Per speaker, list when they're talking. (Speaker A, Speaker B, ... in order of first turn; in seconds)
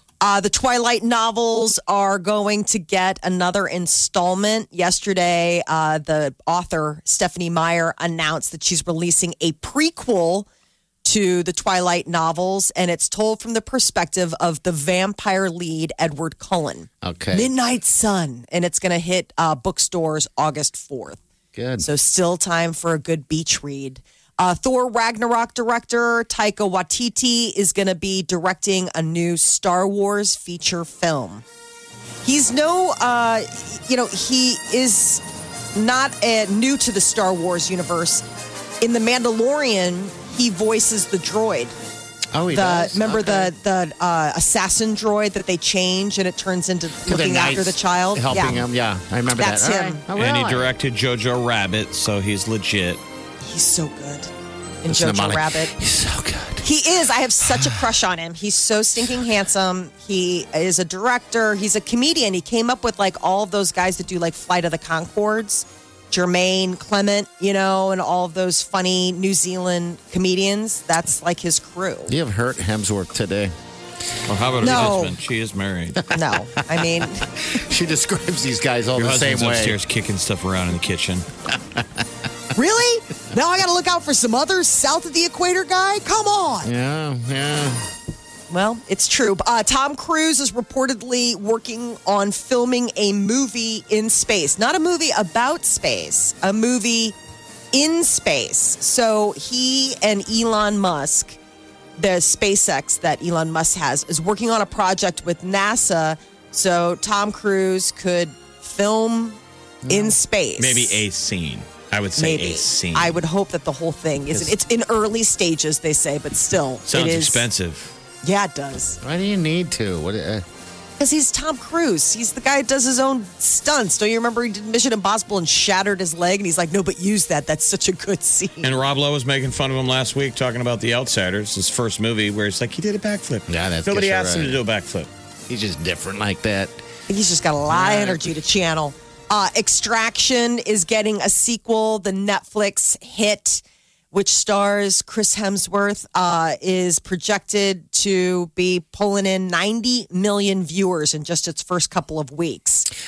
Speaker A: 0.2-10.5, 11.0-21.2, 21.8-31.4, 32.2-35.2, 35.7-38.2, 38.8-41.7, 42.5-48.6, 49.4-50.0, 53.4-54.3, 54.8-55.7, 56.6-72.1, 74.6-75.1, 76.1-77.2, 82.5-86.7, 88.5-97.1, 97.7-101.4, 102.0-111.0, 112.2-117.5, 118.2-119.0, 121.0-128.7, 137.1-152.8
Speaker B: 17.0-17.5, 21.5-21.9, 42.3-43.5, 47.0-50.7, 54.9-56.6, 72.1-73.5, 76.8-79.8, 81.5-82.0, 86.6-87.9, 109.8-110.2, 119.0-120.4, 133.5-134.6, 135.5-136.8, 137.7-138.2
Speaker C: 50.1-53.0, 74.3-76.0, 79.0-81.3, 110.6-113.2, 116.9-117.9, 128.6-135.1